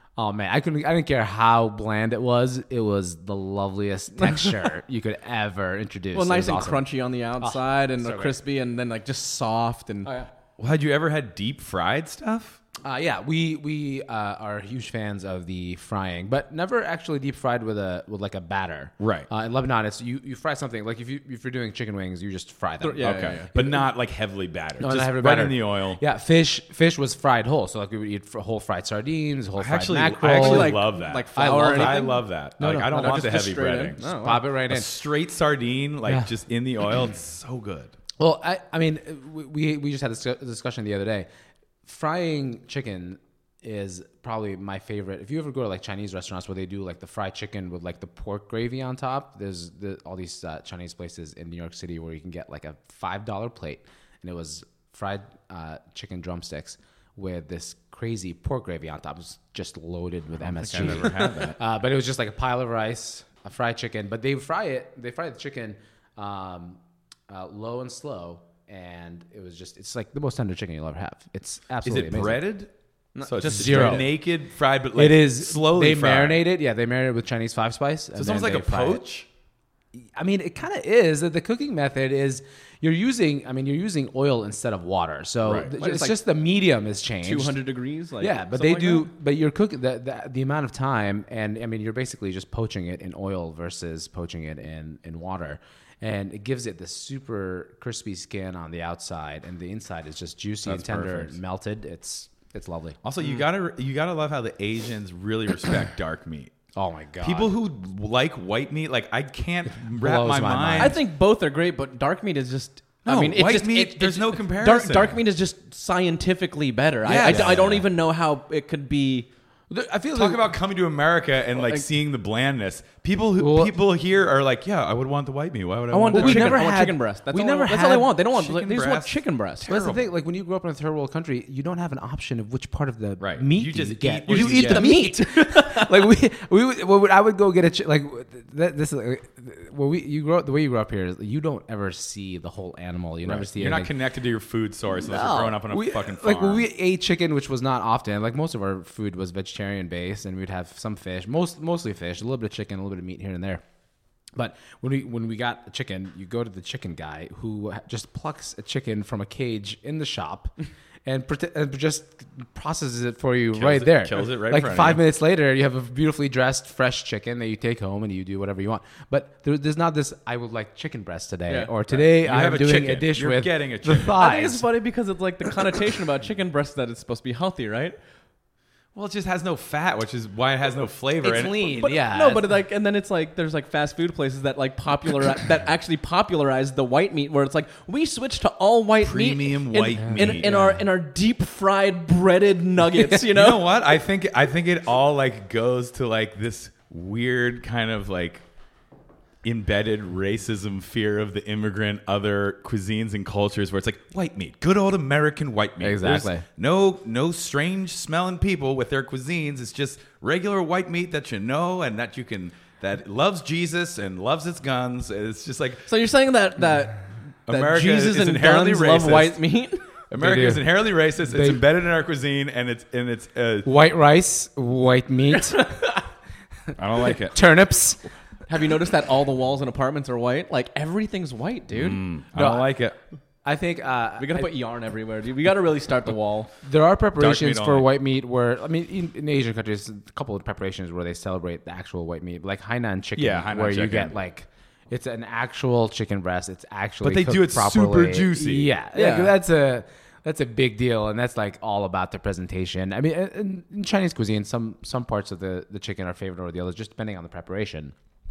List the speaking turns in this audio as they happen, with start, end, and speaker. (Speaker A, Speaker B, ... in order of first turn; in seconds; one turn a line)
Speaker A: 0.2-6.8
Speaker B: 4.2-4.5
Speaker B: 6.1-10.1
Speaker A: 7.4-8.3
Speaker C: 10.6-12.6
Speaker A: 12.8-23.9
Speaker C: 19.0-19.3
Speaker B: 22.8-23.5
Speaker C: 23.0-26.0
Speaker A: 24.8-30.8
Speaker C: 29.6-34.0
Speaker B: 30.3-32.2
Speaker A: 31.4-33.4
Speaker B: 32.9-34.4
Speaker A: 34.0-34.9
Speaker C: 34.5-37.9
Speaker A: 38.2-41.3
Speaker A: 41.8-72.5
Speaker C: 60.4-61.6
Speaker B: 60.8-61.5
Speaker C: 71.8-72.7
Speaker B: 73.2-74.0
Speaker C: 73.2-76.4
Speaker A: 73.4-74.1
Speaker A: 75.0-79.1
Speaker C: 78.2-79.3
Speaker A: 79.9-87.7
Speaker B: 85.7-86.2
Speaker B: 87.2-89.1
Speaker A: 88.2-103.0
Speaker C: 100.7-101.3
Speaker C: 103.0-106.5
Speaker A: 106.8-107.5
Speaker C: 107.2-111.0
Speaker A: 110.0-111.0
Speaker B: 110.8-119.3
Speaker C: 113.0-115.2
Speaker A: 117.0-117.8
Speaker C: 117.1-117.8
Speaker A: 119.7-120.5
Speaker C: 120.1-126.7
Speaker B: 121.5-121.9
Speaker A: 123.4-123.8
Speaker B: 125.9-129.7
Speaker A: 126.1-128.2
Speaker C: 127.9-130.1
Speaker A: 129.7-143.9
Speaker C: 133.2-134.9
Speaker B: 134.3-136.0
Speaker C: 143.3-146.7
Speaker A: 144.9-153.6
Speaker A: 154.4-160.5
Speaker A: 161.1-174.6
Speaker C: 163.5-165.0
Speaker B: 171.5-171.7
Speaker C: 172.0-174.2
Speaker B: 174.2-178.0
Speaker C: 178.9-181.6
Speaker A: 181.2-182.4
Speaker B: 181.3-193.7
Speaker C: 189.0-190.8
Speaker A: 189.9-190.7
Speaker C: 193.2-198.4
Speaker C: 199.4-215.9
Speaker A: 205.8-206.4
Speaker B: 215.9-219.9
Speaker C: 217.5-219.4
Speaker C: 220.1-223.7
Speaker A: 220.2-220.7
Speaker A: 221.2-221.6
Speaker A: 223.7-225.7
Speaker B: 225.6-226.0
Speaker C: 226.8-227.4
Speaker A: 227.0-228.0
Speaker B: 228.5-232.1
Speaker C: 231.7-233.0
Speaker A: 232.3-232.8
Speaker A: 233.4-234.5
Speaker B: 234.2-236.5
Speaker A: 236.6-257.9
Speaker C: 237.2-237.9
Speaker C: 243.2-244.2
Speaker C: 247.0-248.7
Speaker B: 248.9-249.3